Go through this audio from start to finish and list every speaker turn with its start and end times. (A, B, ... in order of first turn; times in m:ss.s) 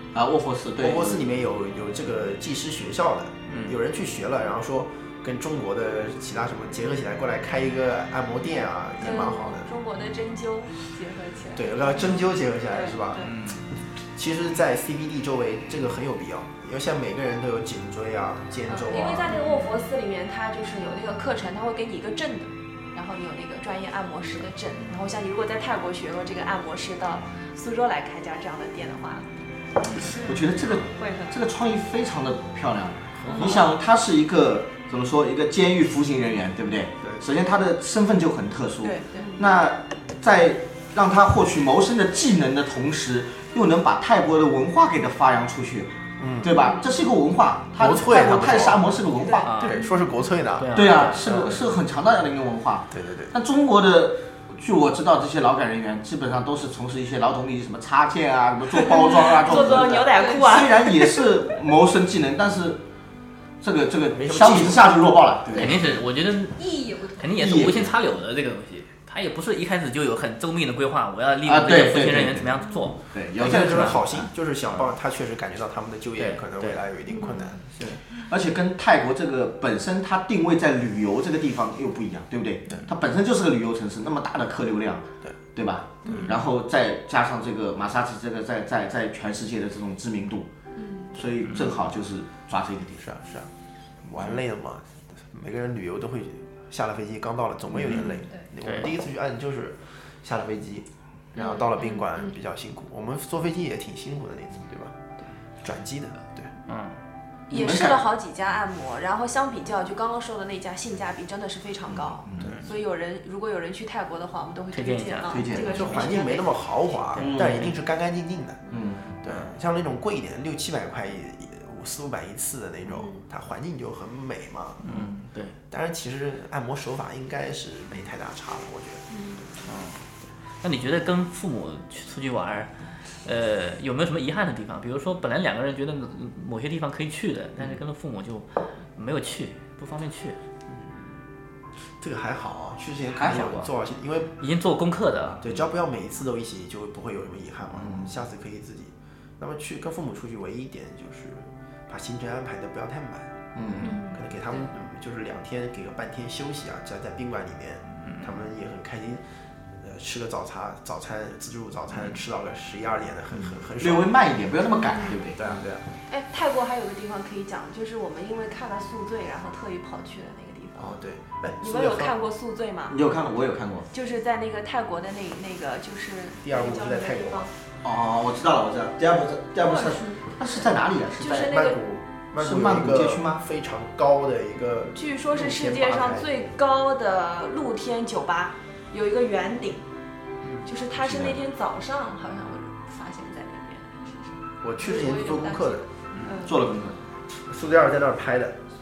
0:00.1-0:01.2 A
0:00.8-0:09.7 B
0:03.5-0:03.8 C
0:09.0-0:13.3 D
0:11.5-0:13.3 B
0:13.2-0:13.6 C
0:14.1-0:19.4 B
0:18.7-0:29.3 D
0:19.3-0:19.8 E
0:29.9-0:31.3 D
0:30.2-0:49.6 A
0:33.2-0:33.6 B
0:33.3-0:33.6 D
0:38.8-0:39.4 D
0:46.2-0:46.6 B
0:46.6-0:46.9 D
0:47.8-0:49.0 B
0:49.1-0:49.7 D
0:49.4-0:49.8 C
0:49.5-0:50.8 B
0:50.6-0:51.5 C
0:50.7-1:02.8 A
0:52.9-0:53.4 B
0:58.7-1:01.3 D
0:59.2-1:00.6 E
1:03.6-1:05.8 A
1:04.1-1:05.7 B
1:05.6-1:06.6 C
1:06.6-1:07.3 E
1:07.2-1:14.0 C
1:07.3-1:07.9 A
1:11.4-1:14.2 A
1:12.6-1:12.9 E
1:13.4-1:17.6 B
1:16.2-1:16.8 C
1:17.1-1:17.4 E
1:17.8-1:30.5 A
1:26.0-1:26.3 B
1:30.8-1:31.1 E
1:31.1-1:33.0 A
1:33.0-1:33.5 B
1:34.0-1:44.9 B
1:38.6-1:38.9 C
1:41.4-1:42.3 D
1:45.6-1:46.5 B
1:46.7-1:47.0 C
1:47.5-1:56.5 D
1:47.5-1:48.0 A
1:52.2-1:52.5 A
1:54.7-1:55.4 C
1:55.3-1:55.8 A
1:55.6-1:58.6 B
1:57.1-1:57.7 C
1:57.2-1:57.7 A
1:58.7-1:59.1 A
1:59.2-2:04.9 B
2:04.8-2:05.6 C
2:05.7-2:09.0 B
2:09.6-2:10.0 C
2:10.6-2:20.4 C
2:22.0-2:24.3 B
2:23.2-2:23.5 A
2:23.2-2:23.7 C
2:24.4-2:25.4 C
2:25.4-2:33.3 B
2:27.7-2:28.1 A
2:33.5-2:34.0 A
2:33.8-2:34.2 E
2:34.0-2:39.2 B
2:38.0-2:38.3 C
2:39.8-2:44.1 B
2:43.8-2:45.4 A
2:45.3-2:45.9 B
2:46.1-2:51.0 D
2:50.8-2:52.1 B
2:51.6-2:53.0 D
2:52.9-2:53.9 A
2:53.9-2:57.5 D
2:56.4-2:57.5 B
2:57.8-3:01.5 A
2:59.6-3:00.2 E
3:01.2-3:01.8 D
3:01.5-3:06.3 B
3:02.4-3:03.4 A
3:04.9-3:09.9 D
3:10.6-3:16.6 D
3:14.6-3:15.8 B
3:16.1-3:16.4 C
3:16.4-3:17.0 A
3:17.5-3:18.6 B